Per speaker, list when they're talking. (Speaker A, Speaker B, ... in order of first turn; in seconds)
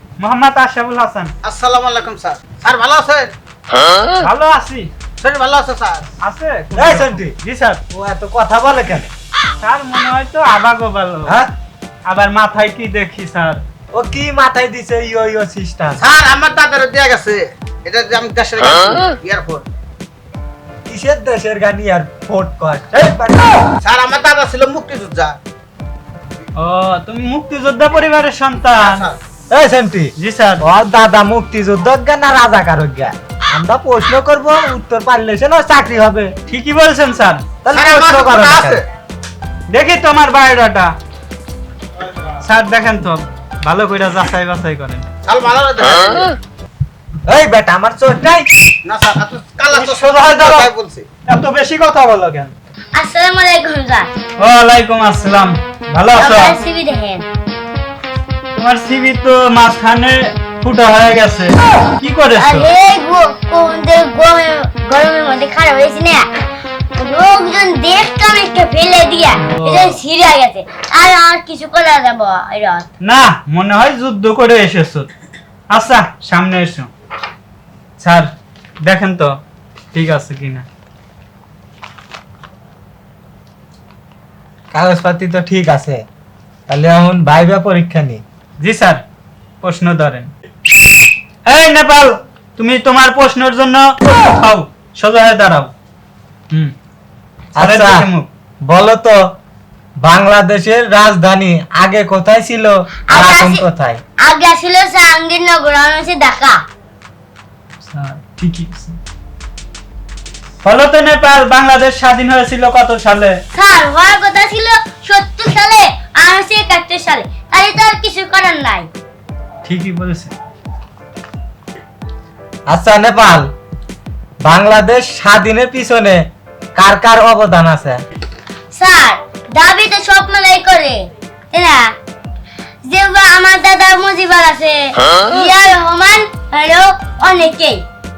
Speaker A: 0.2-1.3, 4.2-4.9, 6.2-7.8, 9.6-11.4, 12.1-13.6, 26.6-29.1, 30.2-30.6, 36.5-37.4, 39.7-40.9, 42.4-45.1, 49.7-50.7, 51.2-52.5, 54.4-56.6, 58.5-62.7, 69.6-70.0, 73.0-75.1, 75.7-76.9, 78.0-78.3, 78.8-79.4, 79.9-80.7, 88.6-89.0, 89.6-90.3, 91.5-95.7, 97.6-98.3, 107.8-109.0, 110.6-113.4, 119.7-120.3
Speaker B: 1.4-3.3, 5.2-6.1, 16.0-19.6, 23.8-25.4, 28.8-29.2, 37.7-38.9, 45.3-46.4, 48.9-51.1
Speaker C: 6.8-7.4, 7.9-9.1, 11.2-11.5, 13.9-16.0, 20.9-23.7, 29.5-36.3, 37.6-38.8, 47.3-48.5, 84.7-86.0, 86.7-88.2, 97.6-98.1, 98.7-99.3, 100.0-104.0, 122.7-123.5, 124.4-128.0
Speaker D: 52.9-54.1, 56.2-57.2, 62.4-66.3, 67.0-72.9, 103.1-103.7, 104.2-106.6, 113.5-118.9, 128.7-131.9, 132.8-137.8